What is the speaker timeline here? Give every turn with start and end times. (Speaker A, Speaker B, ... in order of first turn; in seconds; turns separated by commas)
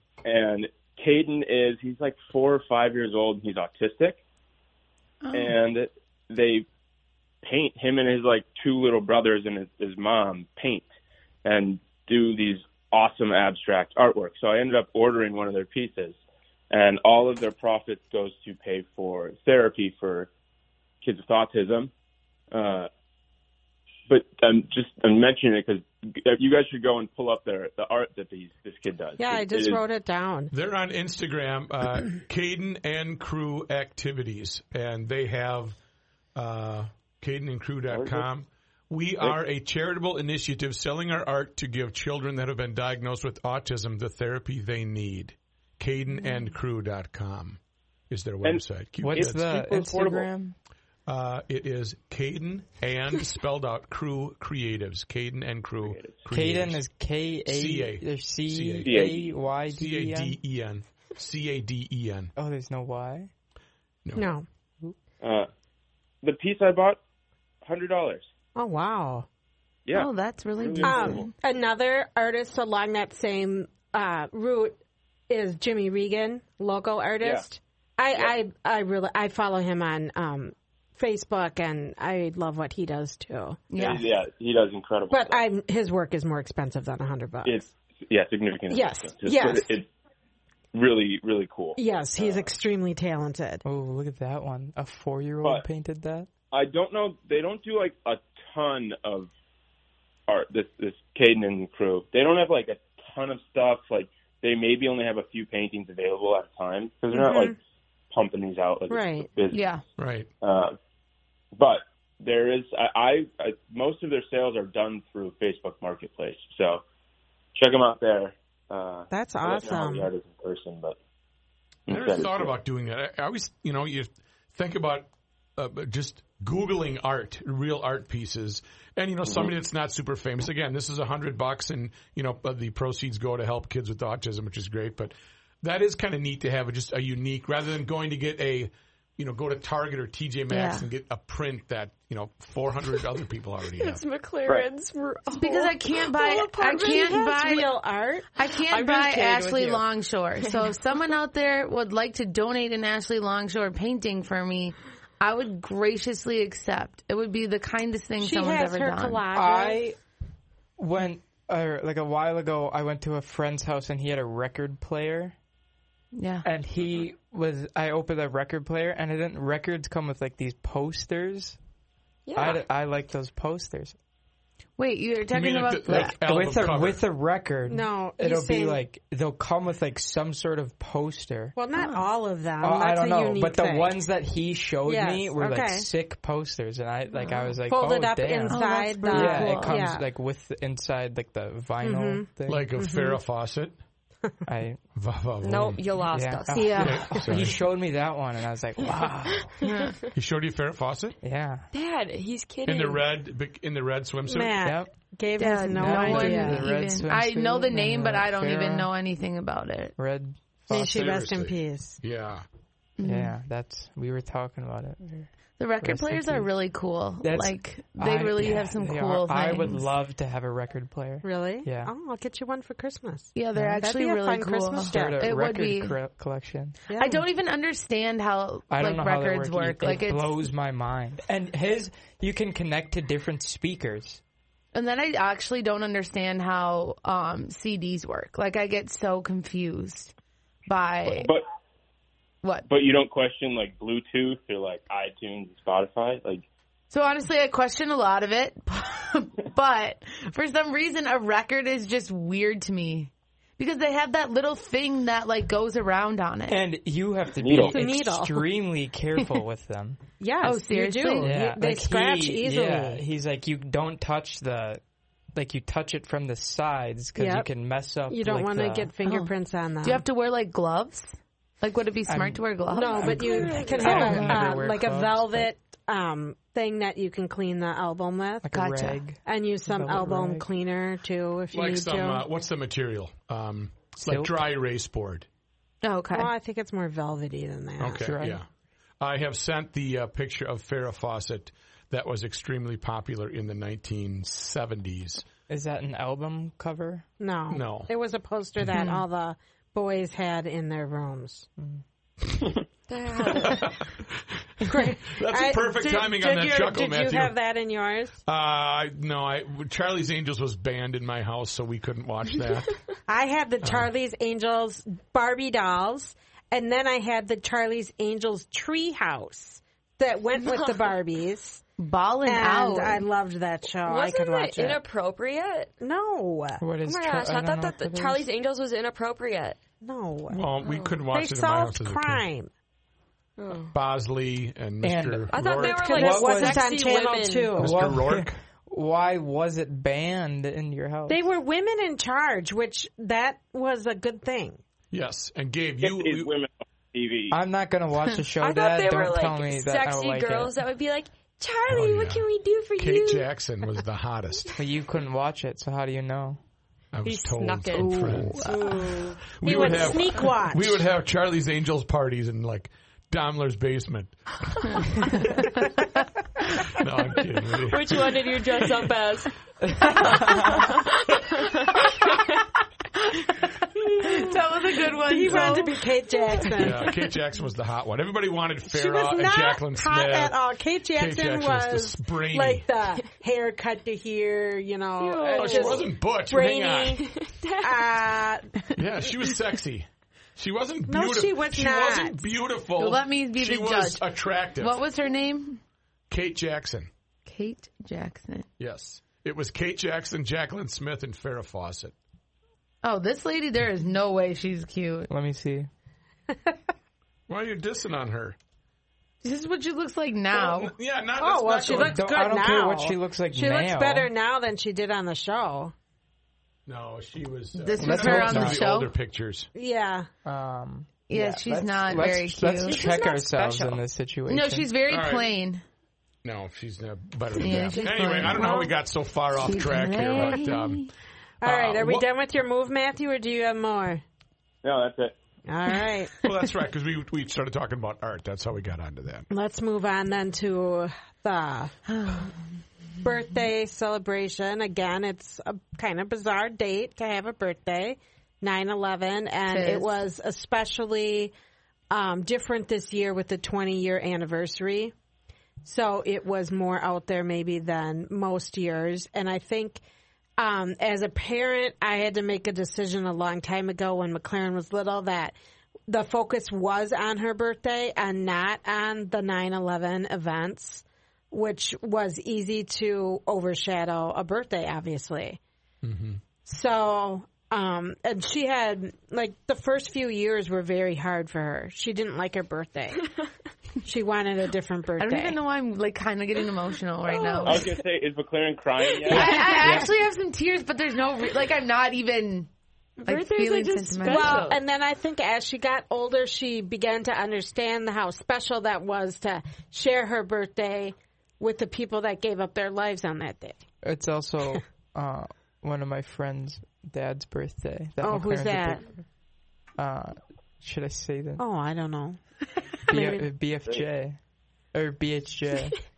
Speaker A: 0.2-4.2, Speaker B: 5.2-5.5, Speaker A: 5.3-6.7, Speaker A: 7.4-10.9, Speaker A: 11.4-16.2, Speaker A: 16.7-20.3, Speaker A: 21.0-21.9, Speaker A: 22.5-22.9, Speaker A: 24.1-29.8, Speaker C: 29.2-30.5, Speaker D: 30.5-35.8, Speaker D: 36.3-49.5, Speaker A: 37.9-38.2, Speaker E: 49.0-50.5, Speaker A: 49.1-50.3, Speaker D: 51.1-56.8, Speaker A: 55.8-56.2, Speaker E: 56.3-60.4, Speaker D: 57.5-59.0, Speaker A: 58.8-59.4, Speaker D: 59.7-62.3, Speaker E: 62.4-63.3, Speaker D: 64.0-64.3, Speaker C: 64.2-64.4, Speaker A: 65.2-65.5, Speaker A: 66.2-67.0, Speaker A: 67.6-68.3, Speaker C: 68.5-69.3, Speaker A: 69.9-71.3, Speaker B: 69.9-71.3, Speaker C: 70.8-83.7, Speaker A: 77.2-77.5, Speaker B: 83.7-84.0, Speaker A: 83.8-85.4, Speaker C: 85.1-87.7, Speaker A: 87.4-89.9, Speaker C: 88.7-89.7, Speaker A: 90.7-92.5, Speaker C: 91.8-93.6, Speaker E: 93.6-96.3, Speaker A: 96.5-99.3, Speaker A: 100.3-107.6, Speaker C: 107.1-107.5, Speaker A: 108.1-109.7, Speaker C: 108.9-109.3, Speaker B: 109.5-109.8, Speaker D: 110.0-110.3, Speaker A: 110.4-110.8, Speaker A: 111.5-116.8, Speaker A: 117.5-121.0, Speaker C: 119.1-120.1, Speaker A: 121.9-122.5, Speaker D: 121.9-144.0, Speaker B: 140.5-140.8, Speaker F: 143.8-147.2, Speaker B: 145.3-147.7, Speaker C: 146.7-148.3, Speaker B: 148.3-159.2, Speaker F: 148.7-149.8, Speaker C: 158.2-159.9, Speaker E: 159.3-159.9, Speaker E: 160.8-165.3, Speaker B: 166.1-166.4, Speaker E: 166.4-171.6, Speaker F: 172.3-172.6, Speaker E: 172.3-173.9, Speaker B: 174.8-176.1, Speaker D: 175.3-177.0, Speaker E: 175.9-181.6, Speaker C: 177.7-178.8, Speaker C: 181.6-183.9, Speaker E: 182.6-192.7, Speaker C: 184.8-185.9, Speaker C: 187.7-190.0, Speaker B: 188.5-189.7, Speaker C: 191.8-193.2, Speaker D: 192.5-193.8, Speaker E: 194.5-194.8, Speaker D: 194.9-195.8, Speaker F: 195.4-196.9, Speaker E: 196.1-199.5, Speaker C: 196.5-197.3, Speaker B: 196.6-197.0, Speaker D: 196.8-197.6, Speaker B: 199.6-200.0, Speaker F: 199.6-200.0, Speaker D: 200.1-201.2, Speaker E: 201.2-201.7, Speaker F: 201.7-203.0, Speaker D: 202.7-204.6, Speaker C: 204.3-206.7, Speaker E: 204.6-204.9, Speaker B: 205.4-209.9, Speaker E: 205.7-208.9, Speaker E: 210.0-211.1, Speaker C: 210.7-212.0, Speaker D: 210.7-212.4, Speaker B: 213.0-213.3, Speaker E: 213.0-216.5, Speaker B: 215.6-219.9, Speaker E: 217.2-221.9, Speaker C: 221.2-225.2, Speaker B: 223.3-226.0, Speaker E: 223.5-223.8, Speaker E: 224.8-226.8, Speaker C: 226.9-227.2, Speaker B: 227.0-230.4, Speaker E: 228.7-234.2, Speaker B: 234.7-240.1, Speaker B: 240.7-241.3, Speaker A: 241.1-241.4, Speaker A: 242.7-246.5, Speaker B: 246.9-256.6, Speaker E: 256.5-260.0, Speaker A: 257.4-257.8, Speaker C: 257.7-258.4, Speaker C: 260.2-263.0, Speaker B: 260.4-261.3, Speaker E: 261.2-264.8, Speaker E: 265.3-268.9, Speaker C: 267.1-267.5, Speaker C: 268.1-270.0, Speaker B: 269.0-269.3, Speaker B: 269.8-274.5, Speaker E: 272.1-272.4, Speaker C: 272.7-278.5, Speaker F: 273.0-274.1, Speaker E: 273.0-275.5, Speaker E: 278.4-280.4, Speaker B: 278.5-279.0, Speaker C: 279.2-282.2, Speaker D: 281.5-285.3, Speaker E: 284.0-284.3, Speaker B: 285.8-286.3, Speaker C: 286.1-288.1, Speaker D: 287.8-288.4, Speaker E: 288.0-288.4, Speaker D: 289.0-295.2, Speaker E: 295.5-297.1, Speaker C: 297.2-301.5, Speaker D: 297.5-297.9, Speaker B: 298.8-299.0, Speaker D: 302.3-302.6, Speaker F: 302.9-303.7, Speaker D: 303.2-307.4, Speaker C: 304.6-308.2, Speaker D: 308.2-312.7, Speaker C: 313.1-321.6, Speaker D: 313.6-313.9, Speaker F: 320.4-320.8, Speaker B: 321.8-323.1, Speaker C: 322.2-324.8, Speaker F: 323.8-325.7, Speaker C: 325.8-326.6, Speaker E: 326.6-328.3, Speaker F: 326.8-329.6, Speaker C: 329.8-330.5, Speaker D: 330.3-332.2, Speaker C: 331.1-332.5, Speaker F: 333.4-333.7, Speaker D: 333.7-335.9, Speaker E: 334.8-336.6, Speaker F: 335.3-337.6, Speaker C: 335.6-337.7, Speaker D: 337.6-338.4, Speaker E: 337.6-341.2, Speaker C: 341.1-344.6, Speaker D: 344.9-346.3, Speaker A: 345.8-347.4, Speaker E: 347.3-350.5, Speaker F: 348.4-353.3, Speaker D: 351.7-352.2, Speaker D: 352.8-354.5, Speaker E: 354.6-356.4, Speaker D: 356.9-358.5, Speaker F: 357.0-359.3, Speaker B: 357.7-359.1, Speaker D: 359.4-365.1, Speaker C: 359.4-360.8, Speaker D: 366.7-368.9, Speaker F: 367.6-372.4, Speaker B: 370.1-370.4, Speaker B: 373.0-373.5, Speaker B: 374.0-375.7, Speaker C: 375.0-376.9, Speaker D: 376.6-380.4, Speaker C: 378.7-387.1, Speaker D: 380.9-382.6, Speaker F: 385.0-385.8, Speaker D: 385.3-387.1, Speaker F: 387.1-387.8, Speaker C: 387.6-388.5, Speaker D: 388.8-394.8, Speaker C: 390.9-392.2, Speaker B: 392.8-394.0, Speaker B: 394.6-395.6, Speaker D: 396.1-396.9, Speaker B: 397.2-398.5, Speaker D: 398.6-401.9, Speaker B: 402.8-405.1, Speaker E: 405.1-405.7, Speaker D: 407.3-408.4, Speaker B: 409.2-410.7, Speaker D: 410.3-412.0, Speaker C: 411.2-415.7, Speaker E: 411.7-414.1, Speaker D: 416.6-419.5, Speaker B: 417.6-418.9, Speaker E: 417.8-418.6, Speaker C: 419.5-420.1, Speaker E: 420.2-424.7, Speaker B: 421.1-425.6, Speaker D: 424.9-425.3, Speaker D: 426.2-430.9, Speaker B: 427.4-428.8, Speaker B: 429.4-430.9, Speaker D: 431.4-432.1, Speaker C: 431.4-434.0, Speaker A: 434.6-435.1, Speaker C: 435.5-436.1, Speaker D: 436.2-439.3, Speaker C: 439.3-441.7, Speaker B: 441.9-442.3, Speaker C: 443.0-451.3, Speaker B: 449.5-450.0, Speaker C: 451.9-454.9, Speaker C: 455.6-459.8, Speaker C: 460.4-465.3, Speaker C: 465.9-475.4, Speaker D: 475.8-476.2, Speaker C: 476.4-483.0, Speaker C: 483.8-485.4, Speaker B: 485.0-487.7, Speaker C: 487.1-487.4, Speaker F: 487.3-487.6, Speaker A: 487.4-489.4, Speaker B: 489.0-492.5, Speaker E: 489.1-489.9, Speaker C: 489.1-489.8, Speaker F: 493.0-494.6, Speaker B: 493.1-494.5, Speaker C: 494.0-503.6, Speaker E: 503.8-508.9, Speaker C: 508.0-508.8, Speaker E: 509.8-511.4, Speaker C: 511.4-512.2, Speaker E: 512.9-514.2, Speaker C: 512.9-513.3, Speaker E: 514.7-515.8